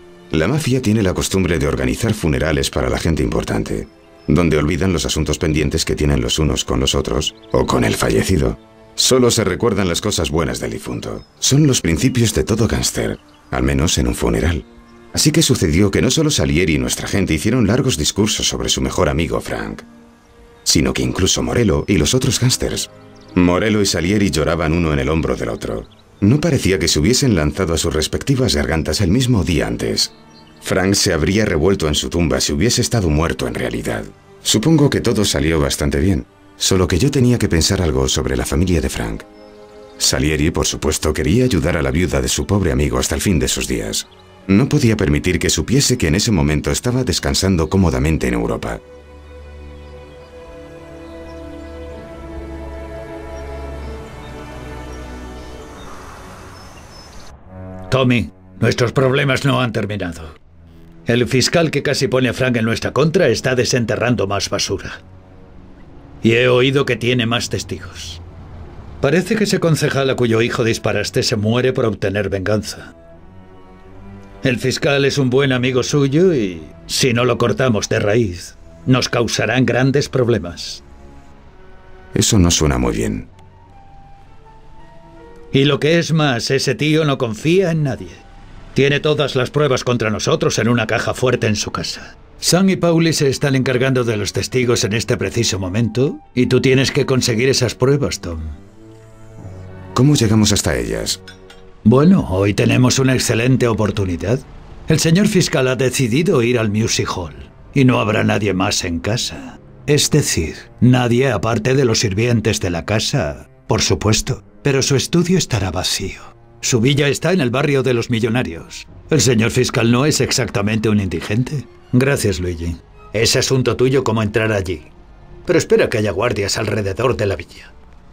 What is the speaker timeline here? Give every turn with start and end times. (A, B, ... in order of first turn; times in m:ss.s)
0:00.3-0:19.9 A
0:20.6-0:39.3 A
0:40.0-0:48.8 A
0:57.9-1:00.4 B
1:01.0-1:05.0 B
1:06.2-1:08.2 B
1:09.0-1:12.9 B
1:14.4-1:20.8 B
1:22.1-1:23.3 A
1:25.5-1:28.2 B
1:28.7-1:38.6 B
1:39.9-1:41.2 A
1:41.8-2:04.9 B
2:05.4-2:07.7 B